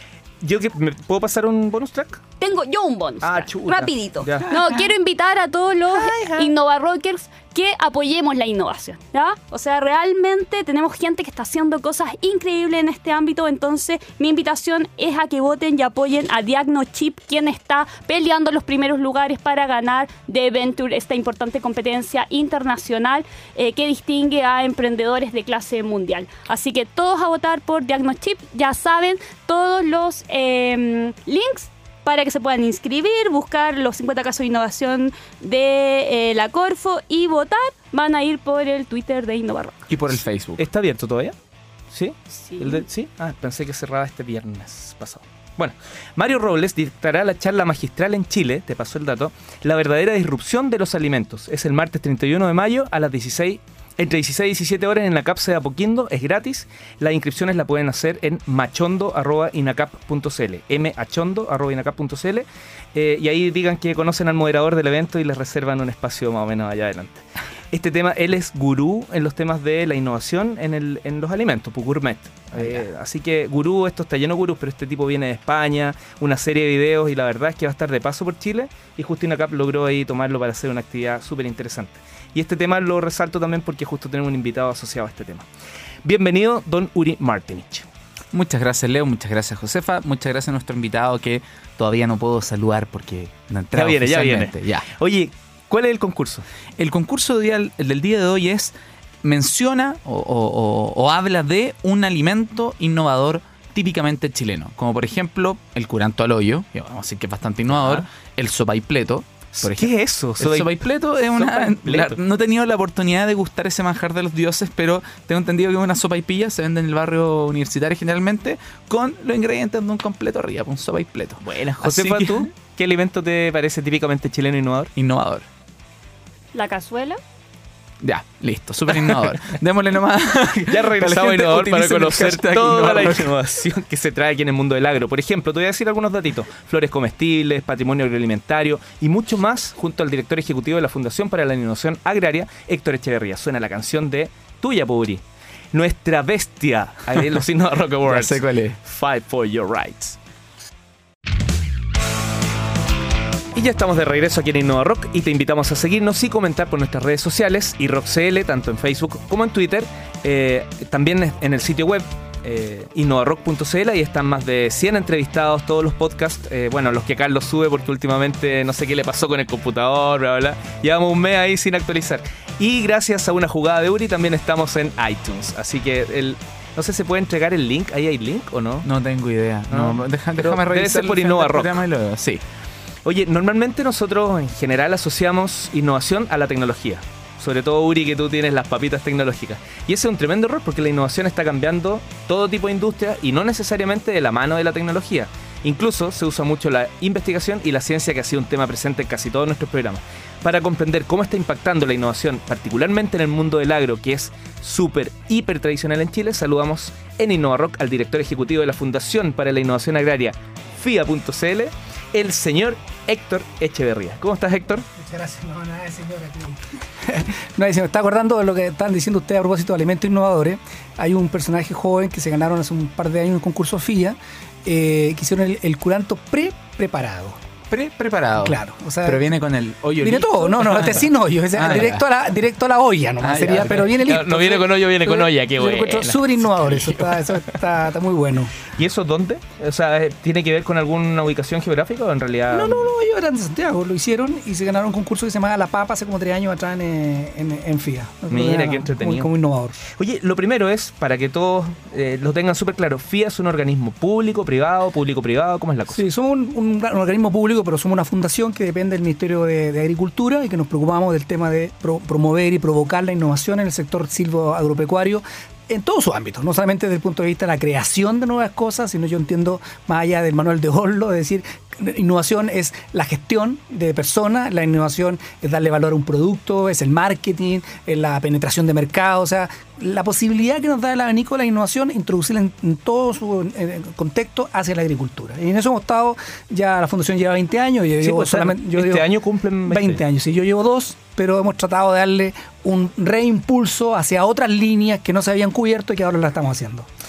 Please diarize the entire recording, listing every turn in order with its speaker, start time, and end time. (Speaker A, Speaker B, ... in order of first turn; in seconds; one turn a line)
Speaker A: 0.4-2.2
Speaker B: 2.4-39.8
Speaker A: 3.2-4.6
Speaker A: 5.9-6.5
Speaker C: 39.9-40.6
Speaker A: 40.6-41.3
Speaker A: 41.9-85.5
Speaker B: 42.5-42.8
Speaker A: 86.0-87.9
Speaker C: 88.3-94.9
Speaker A: 93.7-96.4
Speaker C: 96.8-122.5
Speaker A: 107.8-108.0
Speaker A: 109.6-112.2
Speaker A: 121.4-124.9
Speaker C: 125.0-125.5
Speaker B: 126.5-127.2
Speaker C: 128.0-133.3
Speaker A: 129.1-129.3
Speaker A: 130.7-145.2
Speaker A: 145.7-150.2
Speaker C: 148.1-148.8
Speaker A: 153.5-178.9
Speaker C: 178.8-182.4
Speaker A: 179.7-181.8
Speaker A: 183.0-214.8
Speaker D: 214.9-227.4
Speaker C: 227.7-232.0
Speaker D: 228.4-229.2
Speaker D: 230.0-238.5
Speaker C: 233.2-233.9
Speaker A: 233.5-236.7
Speaker C: 236.8-237.2
Speaker A: 238.7-242.9
Speaker D: 242.5-249.8
Speaker A: 248.3-249.3
Speaker A: 249.9-256.0
Speaker D: 255.9-289.1
Speaker A: 288.0-290.0
Speaker D: 289.7-296.9